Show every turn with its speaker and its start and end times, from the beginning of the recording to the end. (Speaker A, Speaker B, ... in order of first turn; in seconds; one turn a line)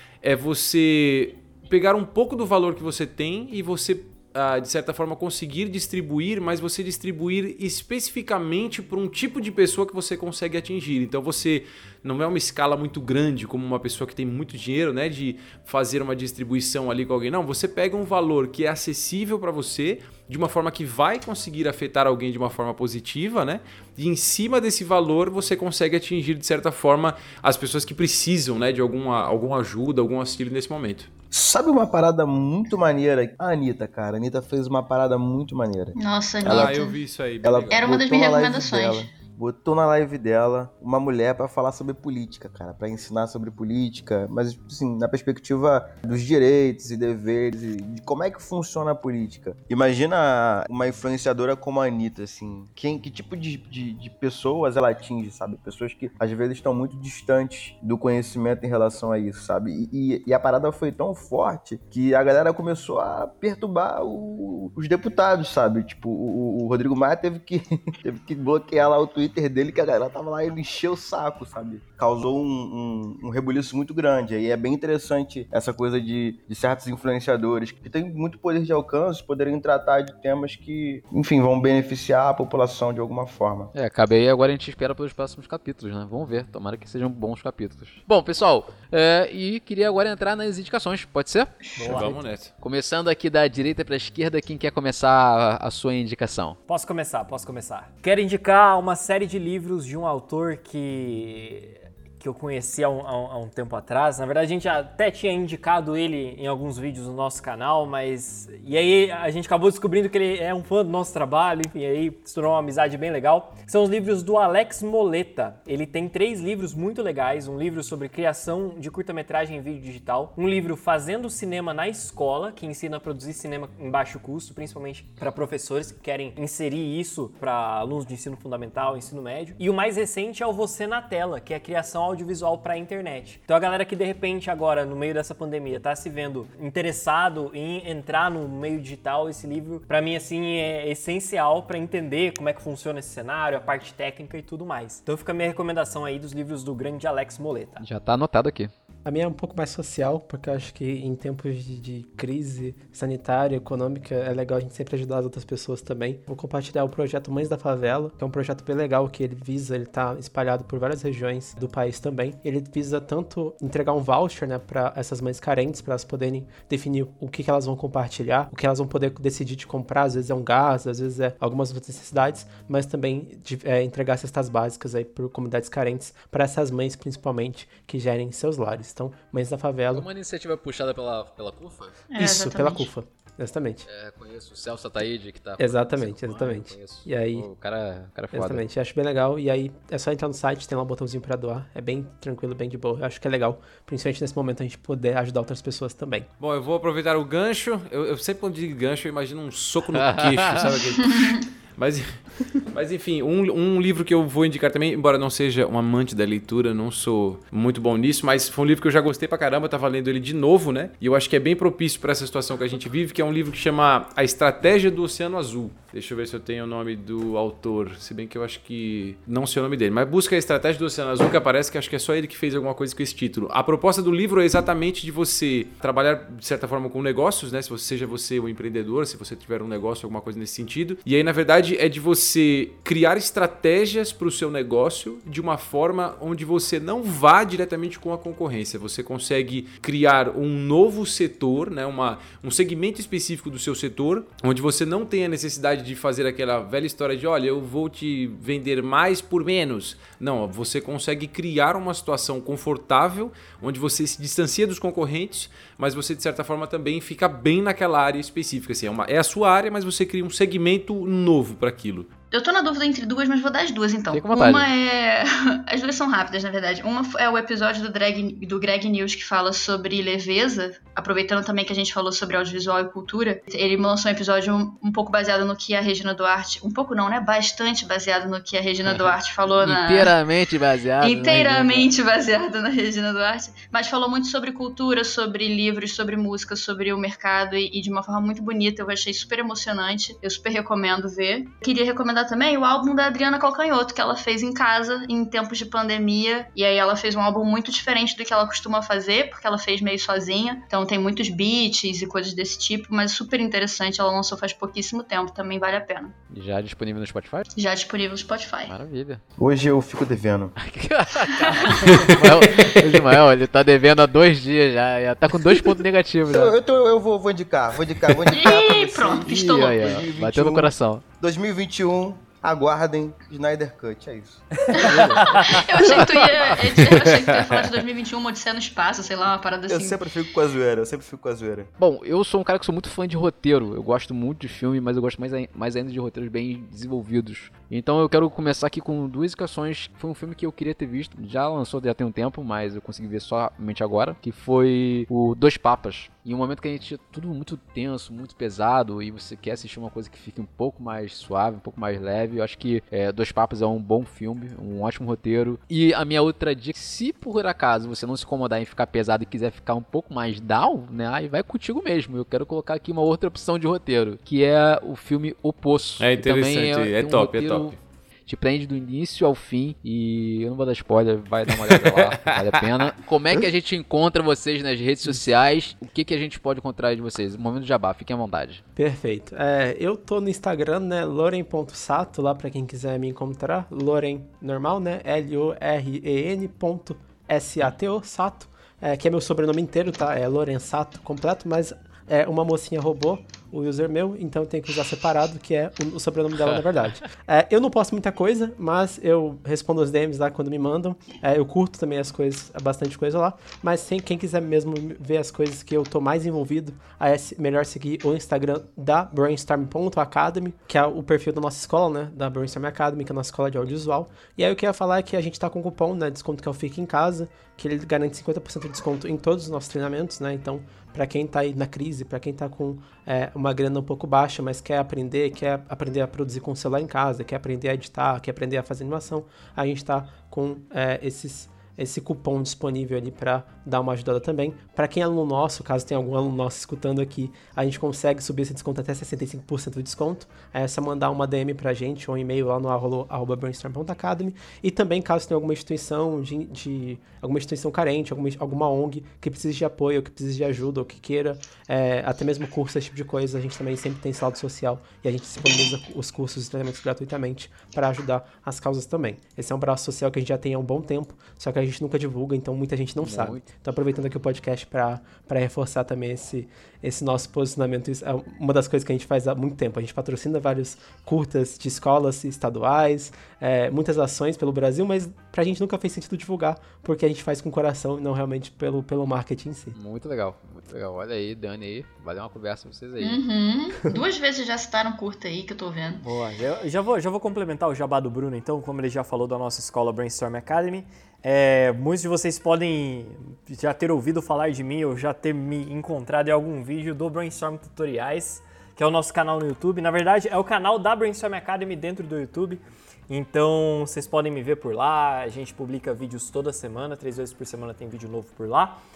Speaker A: 0.2-31.1
Speaker B: 31.3-36.8
Speaker C: 36.0-36.9
Speaker A: 36.4-37.8
Speaker B: 37.4-83.7
Speaker C: 37.7-39.1
Speaker D: 83.7-92.1
Speaker E: 91.8-92.2
Speaker A: 91.8-92.5
Speaker D: 92.6-96.6
Speaker E: 96.7-147.8
Speaker D: 147.8-148.7
Speaker F: 149.0-180.1
Speaker D: 179.9-182.0
Speaker C: 182.1-182.9
Speaker F: 182.2-183.8
Speaker D: 183.8-188.6
Speaker F: 185.6-187.5
Speaker F: 188.3-196.3
Speaker A: 196.4-262.1
Speaker D: 200.0-200.6
Speaker C: 262.3-280.1
Speaker D: 264.1-264.7
Speaker D: 279.6-281.9
Speaker C: 281.0-306.1
Speaker D: 306.3-307.5
Speaker C: 307.6-308.7
Speaker D: 308.7-309.2
Speaker B: 309.4-310.6
Speaker D: 310.6-316.5
Speaker C: 311.3-311.9
Speaker B: 312.0-312.8
Speaker B: 316.3-326.5
Speaker C: 318.3-319.4
Speaker D: 319.2-321.0
Speaker C: 324.8-330.0
Speaker D: 324.9-325.2
Speaker E: 324.9-325.5
Speaker B: 329.7-331.7
Speaker D: 331.8-378.6
Speaker A: 366.0-367.7
Speaker A: 371.7-372.0
Speaker F: 378.8-479.8
Speaker D: 463.0-463.5
Speaker D: 479.7-483.2
Speaker C: 483.0-486.0
Speaker E: 486.0-508.8